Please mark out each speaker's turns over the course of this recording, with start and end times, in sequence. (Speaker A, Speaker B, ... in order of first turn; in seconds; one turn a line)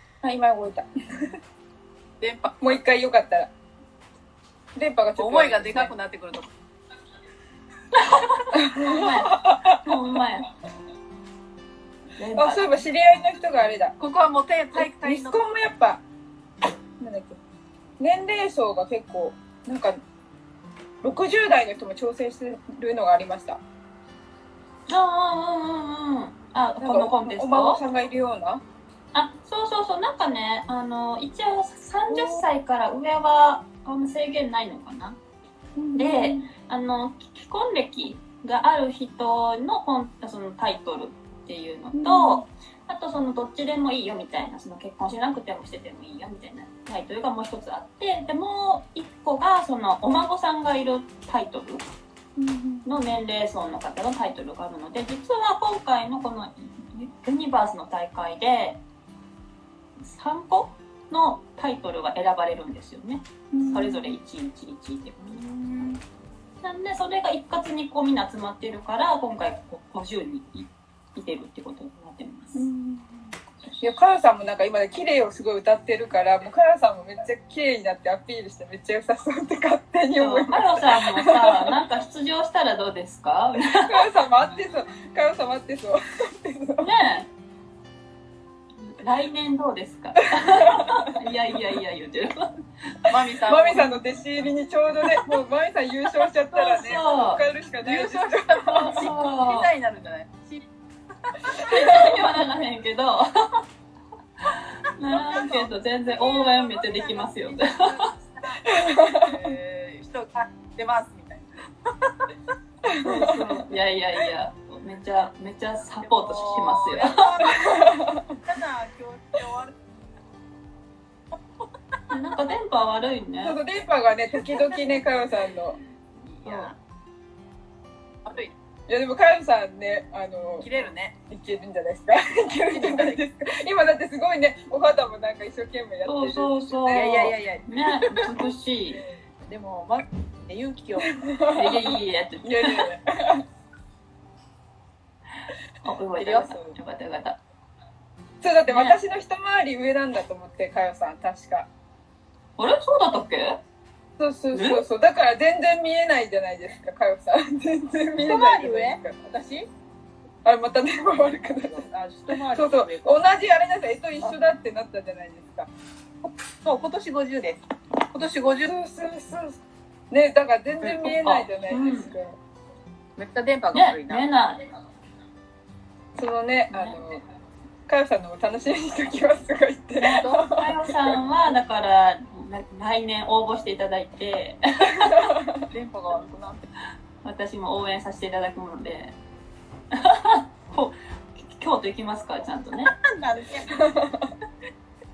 Speaker A: 0.2-1.4
Speaker B: 2.2-2.6
Speaker A: 2.6-3.5
Speaker A: 4.7-5.9
Speaker B: 5.2-6.5
Speaker C: 7.9-10.5
Speaker A: 8.5-9.9
Speaker B: 8.8-9.3
Speaker C: 12.2-12.8
Speaker A: 12.3-13.9
Speaker B: 14.0-15.4
Speaker A: 14.7-16.0
Speaker A: 17.0-17.4
Speaker A: 18.0-20.0
Speaker A: 21.0-23.6
Speaker C: 24.9-27.8
Speaker A: 26.8-28.6
Speaker C: 29.1-35.2
Speaker A: 32.1-32.4
Speaker A: 35.8-36.5
Speaker C: 36.0-51.8
Speaker A: 41.9-42.5
Speaker A: 52.4-52.9
Speaker C: 52.8-58.8
Speaker C: 60.0-66.0
Speaker A: 63.5-64.2
Speaker C: 66.6-72.7
Speaker A: 72.5-81.8
Speaker C: 80.2-84.1
Speaker A: 83.7-86.9
Speaker C: 86.8-87.3
Speaker C: 88.8-92.5
Speaker A: 90.4-91.0
Speaker B: 93.1-93.9
Speaker A: 93.5-99.1
Speaker C: 96.5-97.4
Speaker B: 97.8-100.6
Speaker C: 98.7-99.7
Speaker B: 101.2-101.7
Speaker C: 101.6-103.6
Speaker A: 101.6-102.2
Speaker C: 104.4-108.1
Speaker B: 105.0-112.1
Speaker A: 108.6-109.5
Speaker A: 112.8-113.6
Speaker C: 113.0-117.3
Speaker B: 116.0-117.9
Speaker A: 117.4-118.4
Speaker B: 118.4-119.8
Speaker C: 122.1-123.6
Speaker A: 123.4-125.8
Speaker B: 126.2-126.7
Speaker C: 126.4-126.7
Speaker B: 128.2-128.5
Speaker A: 128.9-130.7
Speaker B: 130.6-131.1
Speaker A: 131.3-137.3
Speaker B: 132.7-133.2
Speaker C: 136.0-139.0
Speaker B: 136.9-138.2
Speaker B: 139.5-141.1
Speaker A: 141.1-143.4
Speaker C: 141.5-142.9
Speaker C: 145.8-147.4
Speaker A: 146.2-146.7
Speaker B: 146.2-146.6
Speaker A: 148.4-151.7
Speaker C: 148.7-149.0
Speaker C: 152.6-153.6
Speaker A: 154.2-159.2
Speaker C: 154.5-154.8
Speaker B: 158.2-159.7
Speaker A: 160.4-161.8
Speaker B: 161.7-163.2
Speaker A: 162.5-165.7
Speaker B: 166.2-167.6
Speaker B: 168.1-168.7
Speaker A: 168.6-172.4
Speaker C: 170.9-172.1
Speaker B: 173.2-174.2
Speaker C: 173.7-174.6
Speaker A: 176.1-177.2
Speaker C: 176.7-177.0
Speaker A: 177.9-181.2
Speaker C: 180.0-185.2
Speaker B: 180.2-180.5
Speaker A: 184.9-185.7
Speaker B: 185.7-186.7
Speaker C: 187.2-189.2
Speaker C: 189.9-192.9
Speaker B: 192.9-193.8
Speaker A: 193.7-194.3